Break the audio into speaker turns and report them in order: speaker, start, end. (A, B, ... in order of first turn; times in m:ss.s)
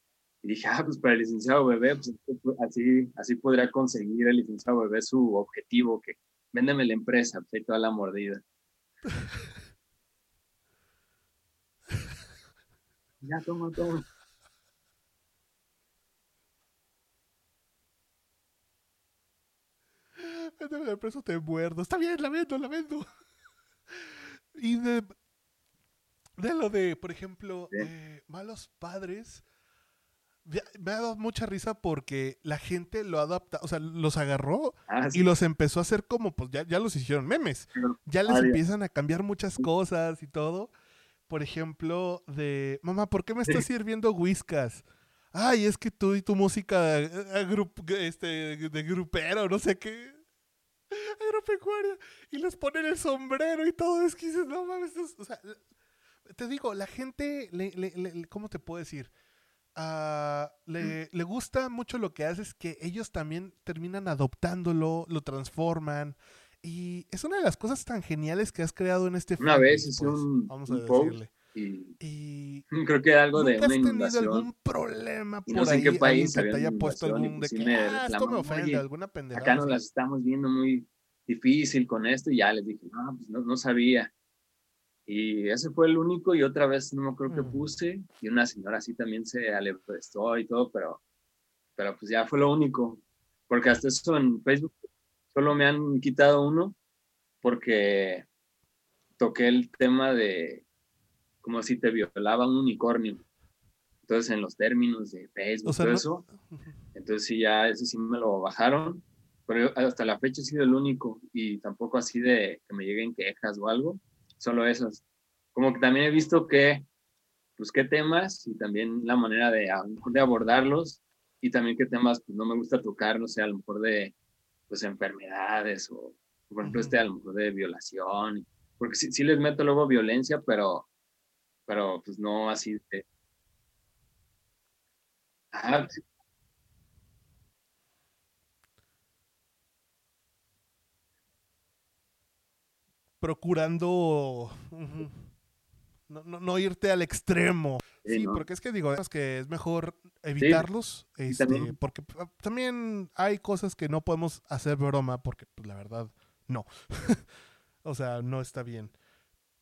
0:00.4-0:08.4 A
0:13.2-0:14.1 A
0:20.2-0:23.1 B
0:23.9-0:25.1 B
0:26.4-0:29.4 B
0:30.4-0:40.7 B
0:34.9-0:35.3 A
0:37.8-0:38.6 A
0:41.3-0:50.2 B
0:50.9-0:55.6 B
0:56.2-0:59.1 B
0:59.8-1:11.3 B
1:09.4-1:12.0 A
1:12.0-1:12.6 B
1:12.7-1:14.5 A
1:13.3-1:19.8 B
1:15.5-1:24.1 A
1:25.1-1:31.0 A
1:27.3-1:27.6 B
1:31.8-1:34.8 A
1:35.3-1:36.8 A
1:37.4-1:38.3 A
1:39.2-1:40.6 A
1:41.4-1:43.2 A
1:44.1-1:46.2 A
1:45.6-1:46.6 B
1:47.0-1:55.0 A
1:55.5-1:56.9 A
1:57.6-2:04.1 A
2:04.7-2:10.9 A
2:06.6-2:07.0 B
2:11.7-2:13.0 A
2:15.5-2:16.0 A
2:23.2-2:25.3 B
2:26.1-2:37.3 B
2:28.0-2:28.4 A
2:30.4-2:30.7 A
2:31.3-2:31.8 A
2:37.8-2:38.9 B